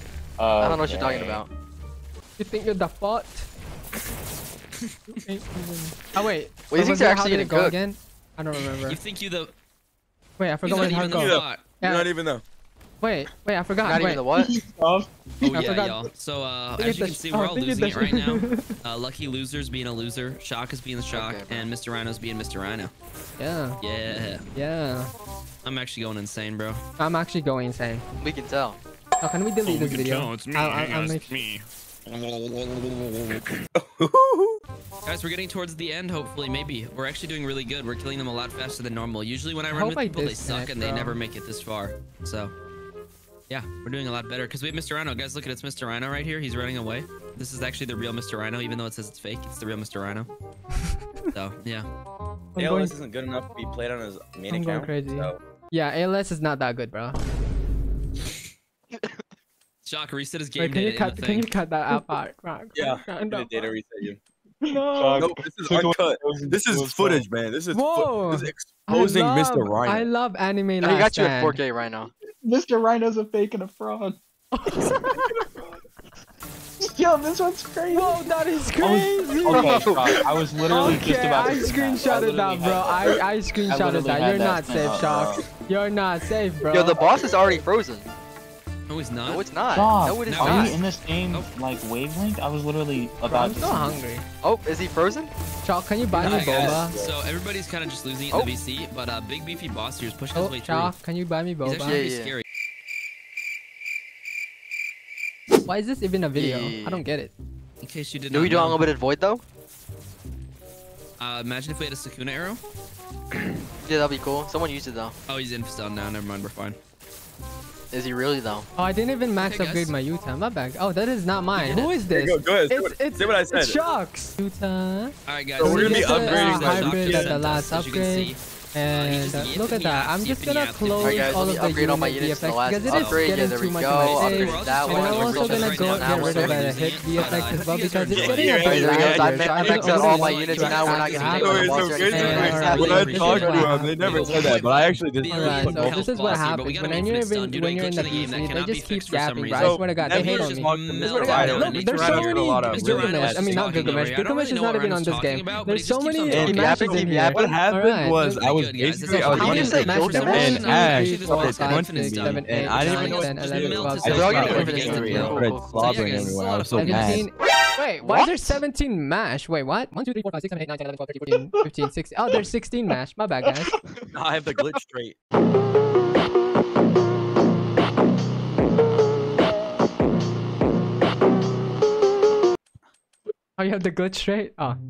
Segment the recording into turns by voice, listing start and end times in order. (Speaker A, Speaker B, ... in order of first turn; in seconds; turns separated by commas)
Speaker A: 0.4-1.4, Speaker B: 0.6-1.5, Speaker C: 2.4-3.5, Speaker C: 5.2-9.0, Speaker B: 6.7-7.8, Speaker D: 8.7-9.5, Speaker C: 10.4-12.1, Speaker D: 10.6-11.6, Speaker E: 10.7-12.4, Speaker C: 13.0-14.2, Speaker B: 13.8-14.5, Speaker A: 14.3-15.7, Speaker C: 15.4-16.0, Speaker D: 15.4-22.9, Speaker C: 16.8-18.7, Speaker B: 21.1-21.7, Speaker C: 23.4-23.8, Speaker D: 23.8-24.4, Speaker C: 24.5-25.1, Speaker D: 25.6-26.8, Speaker C: 27.0-28.1, Speaker B: 28.2-28.8, Speaker C: 29.2-31.5, Speaker D: 29.6-33.4, Speaker E: 33.8-34.6, Speaker D: 35.0-42.5, Speaker C: 39.7-41.2, Speaker D: 43.5-50.3, Speaker D: 51.3-51.9, Speaker C: 52.5-53.0, Speaker E: 52.6-55.4, Speaker C: 54.5-57.2, Speaker B: 58.9-59.3, Speaker D: 59.8-61.5, Speaker C: 60.6-63.7, Speaker E: 62.8-64.2, Speaker A: 64.6-67.3, Speaker C: 64.7-65.3, Speaker E: 65.2-70.1, Speaker C: 67.7-71.6, Speaker B: 70.8-72.1, Speaker A: 72.4-74.2, Speaker C: 74.5-75.5, Speaker A: 76.8-78.2, Speaker C: 77.9-79.9, Speaker A: 78.8-85.5, Speaker B: 79.5-80.2, Speaker C: 80.7-87.0, Speaker B: 86.7-88.1, Speaker E: 87.2-87.5, Speaker D: 88.9-89.4, Speaker B: 89.3-90.8, Speaker A: 89.7-94.0, Speaker D: 90.2-91.5, Speaker C: 93.3-94.2, Speaker B: 94.4-95.3, Speaker C: 95.6-97.0, Speaker E: 96.1-97.2, Speaker D: 96.2-100.9, Speaker C: 100.3-102.0, Speaker D: 101.6-102.4, Speaker B: 101.8-102.4, Speaker C: 105.7-107.3, Speaker B: 106.3-107.0, Speaker D: 107.8-108.8, Speaker B: 108.3-109.4, Speaker D: 111.2-112.6, Speaker B: 113.9-115.1, Speaker D: 115.3-116.8, Speaker B: 117.9-118.7, Speaker C: 118.8-144.4, Speaker D: 119.4-119.9, Speaker D: 121.5-122.0, Speaker E: 122.0-123.8, Speaker D: 125.3-128.4, Speaker E: 125.6-127.3, Speaker D: 128.9-131.5, Speaker B: 131.0-136.9, Speaker D: 132.8-133.3, Speaker D: 134.0-138.7, Speaker E: 137.2-137.6, Speaker E: 138.1-140.4, Speaker B: 138.5-143.7, Speaker D: 139.7-156.9, Speaker E: 141.3-146.0, Speaker C: 145.3-158.4, Speaker E: 149.6-154.1, Speaker E: 156.3-167.3, Speaker B: 156.4-157.4, Speaker D: 158.3-167.3, Speaker C: 159.1-165.4, Speaker B: 159.2-160.7, Speaker B: 164.1-165.8, Speaker C: 166.7-173.7, Speaker B: 168.0-168.6, Speaker E: 174.1-175.2, Speaker C: 183.6-184.8